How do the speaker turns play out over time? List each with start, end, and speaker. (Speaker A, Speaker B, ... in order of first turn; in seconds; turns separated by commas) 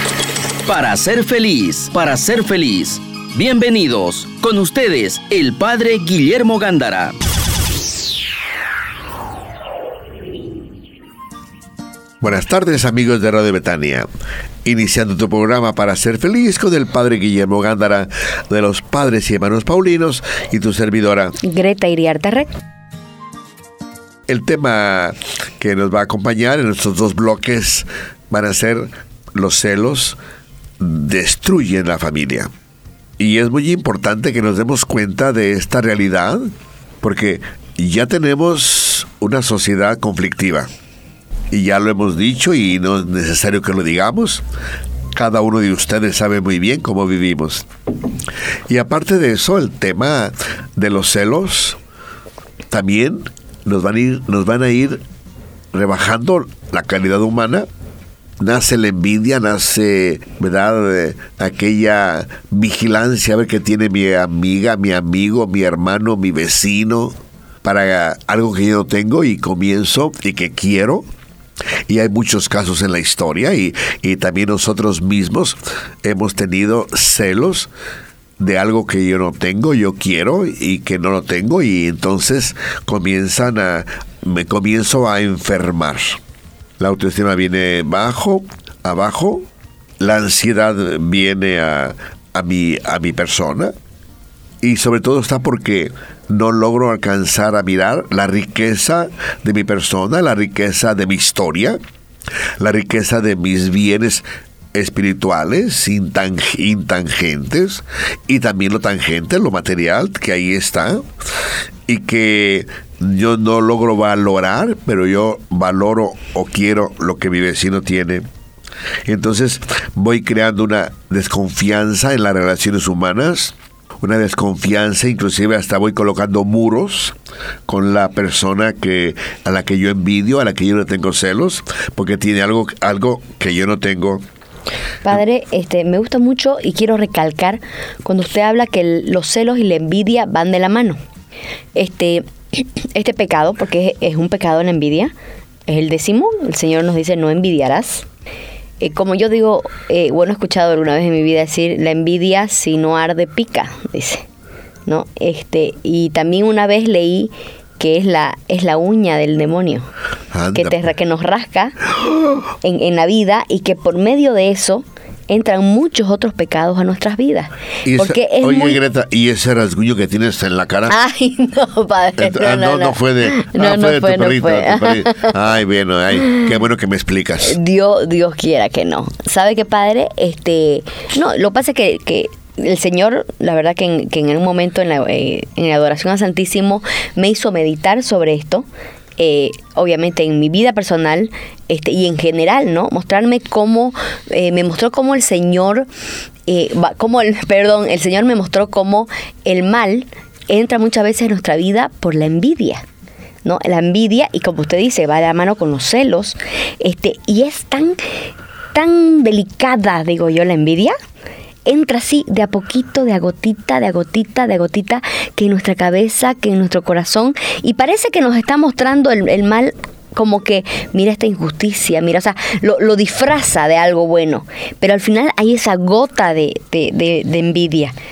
Speaker A: 0.7-7.1, Speaker B: 12.2-14.1, Speaker B: 14.6-21.3, Speaker C: 21.4-22.5, Speaker B: 24.3-30.2, Speaker B: 30.8-32.5, Speaker B: 33.2-36.5, Speaker B: 37.0-40.7, Speaker B: 41.5-44.4, Speaker B: 45.1-47.6, Speaker B: 48.7-51.8, Speaker B: 52.7-55.0, Speaker B: 55.7-57.6, Speaker B: 58.4-71.0, Speaker B: 71.9-77.7, Speaker B: 78.4-86.2, Speaker B: 86.8-89.5, Speaker B: 90.0-93.7, Speaker B: 94.6-101.8, Speaker B: 102.6-111.1, Speaker B: 111.9-118.2, Speaker B: 119.0-127.1, Speaker B: 127.7-134.2, Speaker C: 135.0-141.0, Speaker C: 141.8-145.1, Speaker C: 145.7-148.1, Speaker C: 148.8-154.2, Speaker C: 154.9-159.9, Speaker B: 160.3-160.8, Speaker C: 160.5-161.8, Speaker B: 162.0-162.4, Speaker C: 162.6-168.8, Speaker B: 167.8-170.9, Speaker C: 170.9-175.3, Speaker B: 172.2-177.6, Speaker C: 177.4-188.7, Speaker C: 189.2-195.9, Speaker C: 196.5-202.8, Speaker C: 203.4-208.0, Speaker C: 208.7-210.9, Speaker C: 211.7-227.9